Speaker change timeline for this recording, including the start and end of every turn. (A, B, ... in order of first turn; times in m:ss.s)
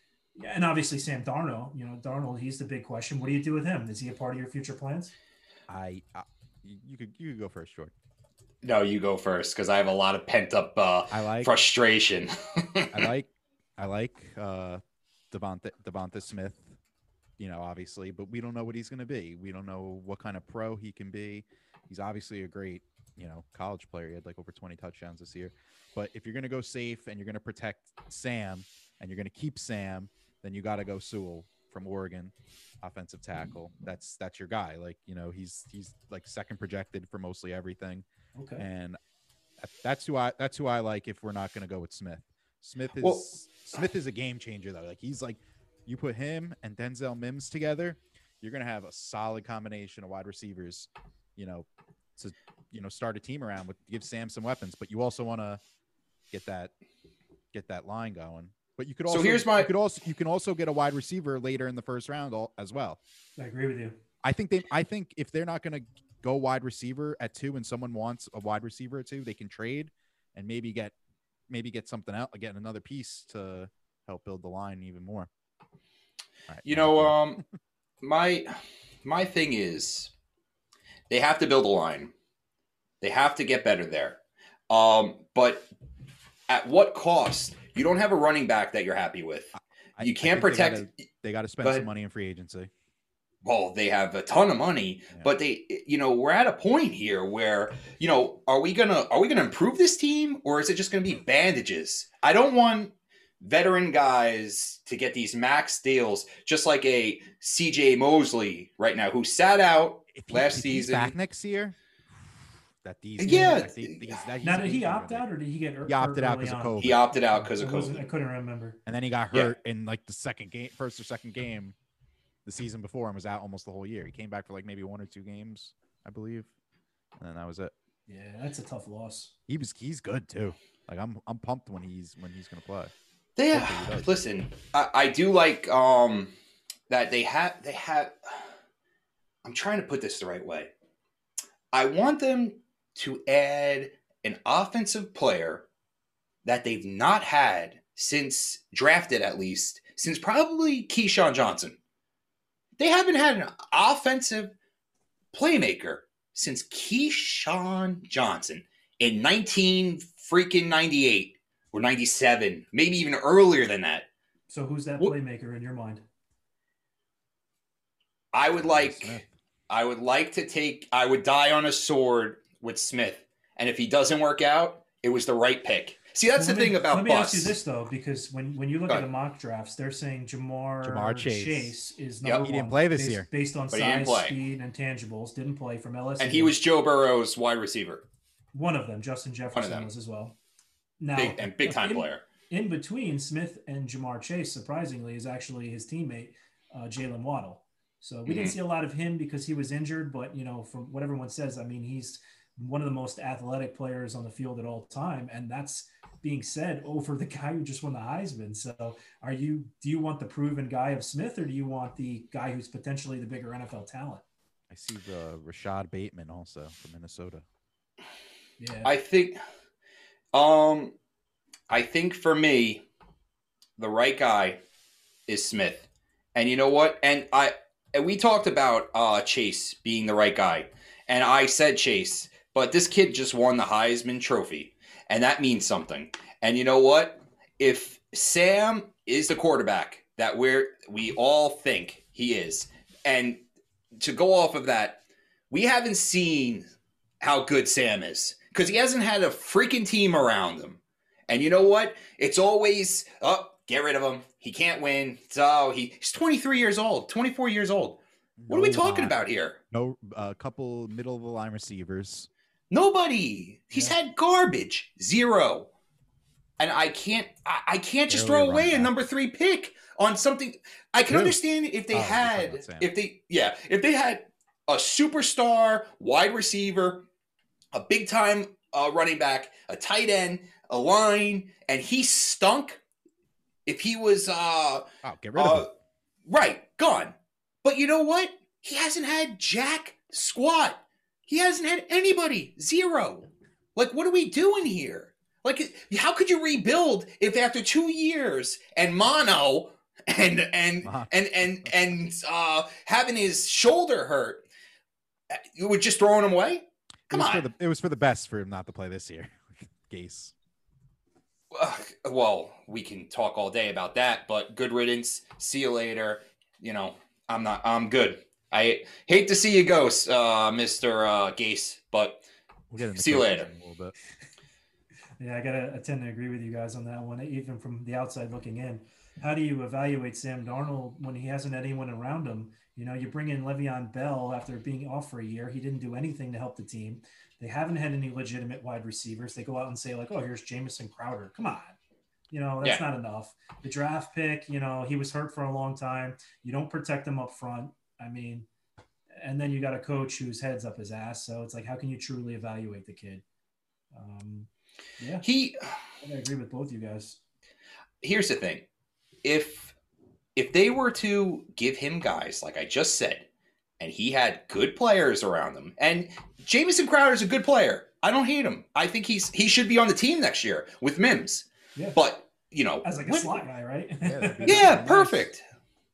0:00.3-0:05.1 A
0:05.7-0:07.9 B
0:08.6-0:13.0 C
0:11.1-0:11.6 B
0:12.9-0:16.8 B
0:17.4-0:38.0 B
0:38.3-0:38.6 A
0:38.6-0:39.0 B
0:39.6-0:55.6 B
0:43.0-0:43.2 C
0:56.3-0:56.7 B
0:57.5-1:03.0 B
0:59.1-0:59.7 C
1:03.4-1:04.0 A
1:04.2-1:10.9 B
1:11.5-1:15.3 B
1:16.5-1:17.4 B
1:16.6-1:17.4 C
1:18.0-1:18.5 C
1:19.0-1:20.1 C
1:21.1-1:22.1 C
1:23.0-1:24.2 C
1:24.7-1:25.7 C
1:26.5-1:30.9 C
1:30.0-1:32.7 B
1:33.4-1:51.1 C
1:50.1-1:51.8 B
1:52.8-1:55.3 B
1:53.2-1:54.2 C
1:54.4-1:58.8 A
1:55.8-1:57.0 B
1:56.8-1:58.1 C
1:58.8-2:01.7 B
2:02.4-2:06.5 B
2:07.2-2:07.7 B
2:08.1-2:09.3 A
2:09.5-2:12.9 B
2:13.4-2:16.3 C
2:13.5-2:14.2 B
2:16.9-2:18.3 C
2:19.4-2:20.7 C
2:21.7-2:25.6 C
2:26.4-2:31.8 C
2:32.8-2:34.5 C
2:35.3-2:44.1 C
2:44.5-2:46.0 A
2:48.3-2:57.6 C
2:48.6-2:49.3 B
2:56.3-3:06.5 A
3:00.8-3:01.7 B
3:02.4-3:03.3 B
3:03.7-3:04.3 C
3:06.2-3:08.0 C
3:08.5-3:10.4 A
3:09.5-3:09.9 C
3:11.0-3:34.2 A
3:11.2-3:12.2 C
3:18.2-3:18.5 C
3:34.7-3:37.4 B
3:38.6-3:38.9 A
3:38.8-3:39.4 C
3:40.3-3:40.9 C
3:41.7-3:42.8 C
3:43.8-3:44.6 C
3:45.3-4:03.4 C
4:04.0-4:06.6 C
4:07.2-4:19.6 C
4:18.4-4:19.2 B
4:19.7-4:22.3 B
4:22.7-4:25.7 C
4:26.6-4:37.0 C
4:28.1-4:28.9 B
4:31.0-4:31.4 B
4:31.9-4:32.9 B
4:37.7-4:42.8 C
4:43.6-4:45.7 C
4:45.0-4:45.7 B
4:46.3-5:04.4 C
5:00.8-5:01.7 B
5:05.3-5:07.4 C
5:07.1-5:10.3 B
5:11.5-5:22.2 C
5:22.7-5:23.9 B
5:22.9-5:23.5 C
5:25.2-5:41.8 A
5:42.3-5:48.5 A
5:49.2-5:53.2 A
5:53.9-5:55.2 A
5:55.2-5:55.7 C
5:56.0-5:57.2 A
5:58.0-5:58.6 C
5:59.2-5:59.7 C
6:00.4-6:03.2 C
6:03.8-6:13.4 C
6:12.8-6:15.2 A
6:14.0-6:14.9 B
6:14.4-6:15.4 C